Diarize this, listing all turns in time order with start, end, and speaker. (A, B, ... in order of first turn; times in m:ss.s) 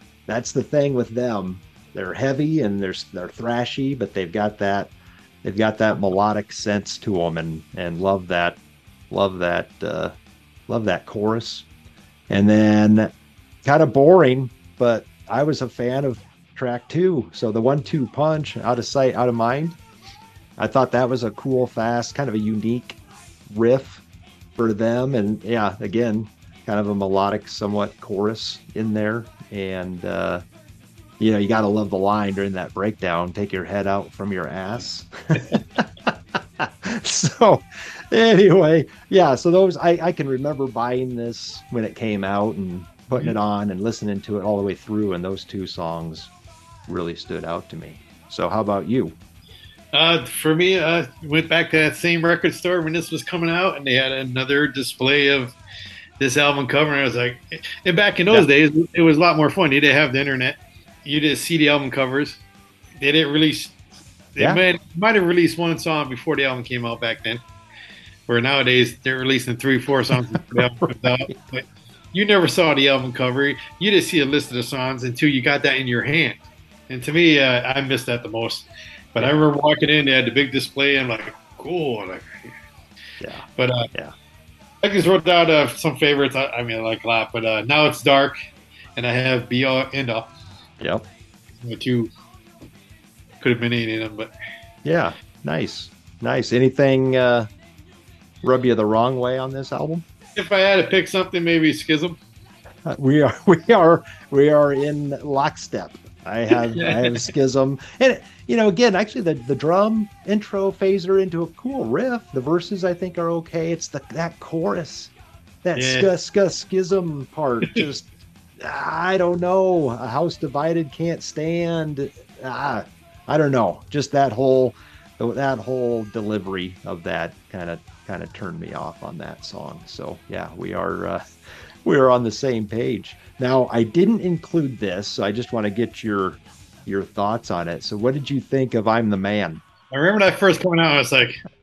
0:00.3-0:04.9 A
0:05.4-0:08.6 A
0:09.1-0:10.1 A
0:10.7-0:11.7 A
0:12.3-0:13.1 A
0:13.6-0:19.8 A
0:20.6-0:23.0 A
0:23.5-0:24.0 A
0:24.6-0:30.4 A
0:31.2-0:46.3 A
0:46.9-0:49.2 A
0:49.9-0:55.5 B
0:56.2-1:02.4 B
1:03.0-1:03.8 B
1:04.3-1:07.4 B
1:04.4-1:04.6 A
1:08.3-1:16.4 B
1:10.1-1:10.6 A
1:16.9-1:22.5 B
1:23.2-1:24.1 A
1:23.6-1:23.9 B
1:24.8-1:28.4 B
1:29.0-1:30.3 B
1:30.8-1:31.0 A
1:31.6-1:32.1 B
1:33.4-1:34.3 B
1:34.8-1:37.5 A
1:38.4-1:40.0 A
1:40.4-1:42.2 B
1:42.8-1:55.1 A
1:46.5-1:47.3 B
1:55.6-1:58.1 A
1:55.8-1:56.1 B
1:58.6-2:11.2 A
2:11.8-2:19.6 A
2:19.9-2:21.4 B